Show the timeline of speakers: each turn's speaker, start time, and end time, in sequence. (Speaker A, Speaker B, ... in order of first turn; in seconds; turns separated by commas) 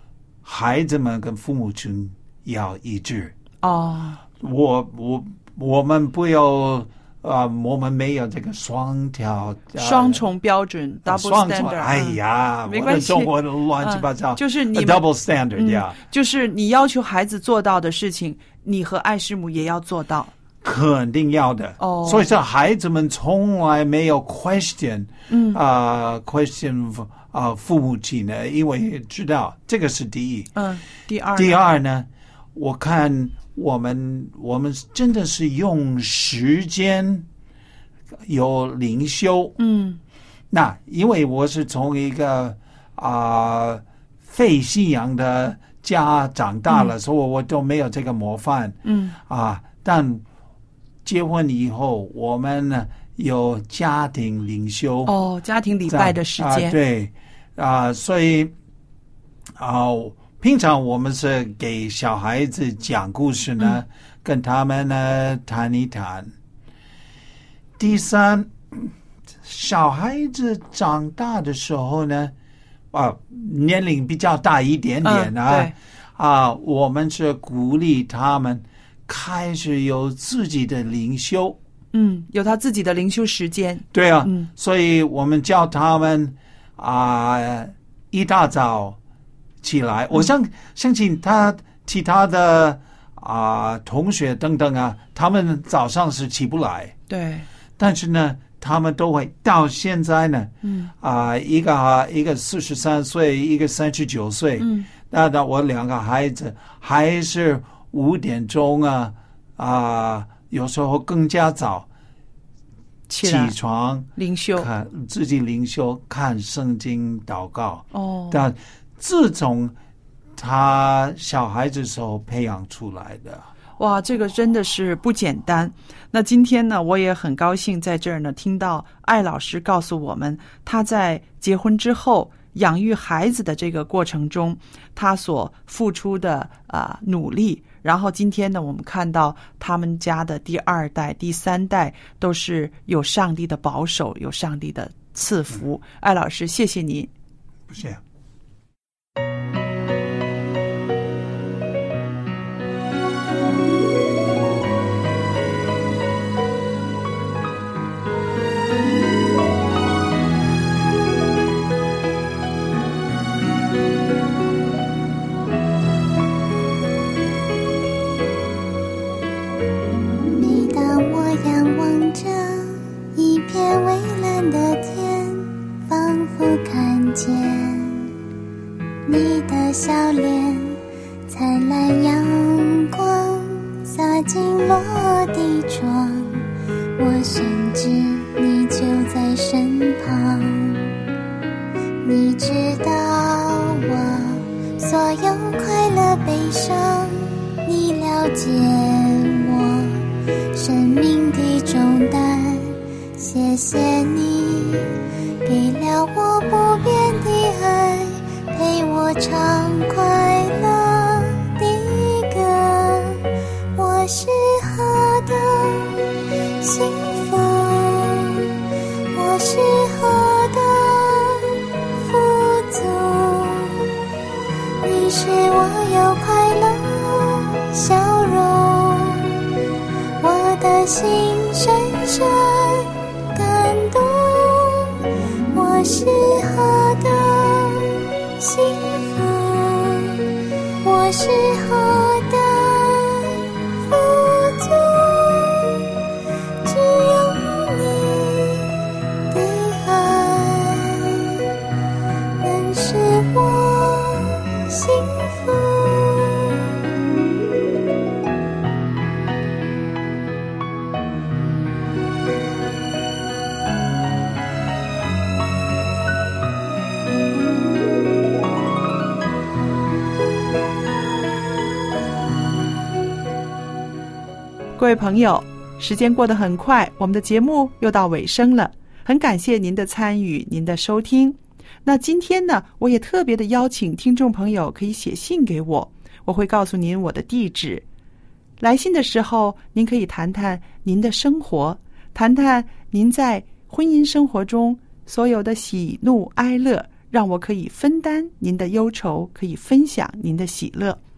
Speaker A: 0.4-3.3, Speaker B: 3.6-4.2, Speaker A: 4.4-10.2, Speaker B: 9.8-15.0, Speaker A: 11.0-16.0, Speaker B: 15.6-20.3, Speaker A: 20.6-30.5, Speaker B: 21.8-22.4, Speaker B: 25.3-25.6, Speaker B: 30.5-31.6, Speaker A: 31.3-37.3, Speaker A: 38.2-39.6, Speaker B: 39.6-40.0, Speaker A: 40.5-50.2, Speaker B: 48.8-49.2, Speaker A: 51.0-55.1, Speaker B: 55.0-56.8, Speaker A: 55.9-58.5, Speaker A: 59.6-66.3, Speaker A: 67.8-68.9, Speaker A: 69.4-72.3, Speaker A: 72.9-81.6, Speaker B: 75.0-75.7, Speaker B: 81.9-84.5, Speaker A: 83.9-89.0, Speaker A: 89.6-96.9, Speaker B: 97.1-97.5, Speaker A: 97.8-111.9, Speaker B: 100.6-100.9, Speaker B: 104.6-104.9, Speaker B: 113.1-113.5, Speaker A: 113.2-119.7, Speaker B: 114.2-114.7, Speaker B: 117.9-118.4, Speaker A: 120.4-123.5, Speaker B: 123.8-147.1, Speaker A: 147.7-148.0, Speaker C: 170.2-178.1, Speaker C: 179.1-190.9, Speaker C: 192.0-204.9, Speaker C: 205.4-213.2, Speaker C: 213.7-218.5, Speaker C: 219.1-223.9, Speaker C: 224.8-229.3, Speaker C: 230.2-235.0, Speaker C: 235.5-240.2, Speaker C: 240.8-245.8, Speaker C: 246.6-248.7, Speaker C: 249.3-251.4, Speaker C: 252.4-256.6, Speaker B: 274.8-287.8, Speaker B: 288.6-301.0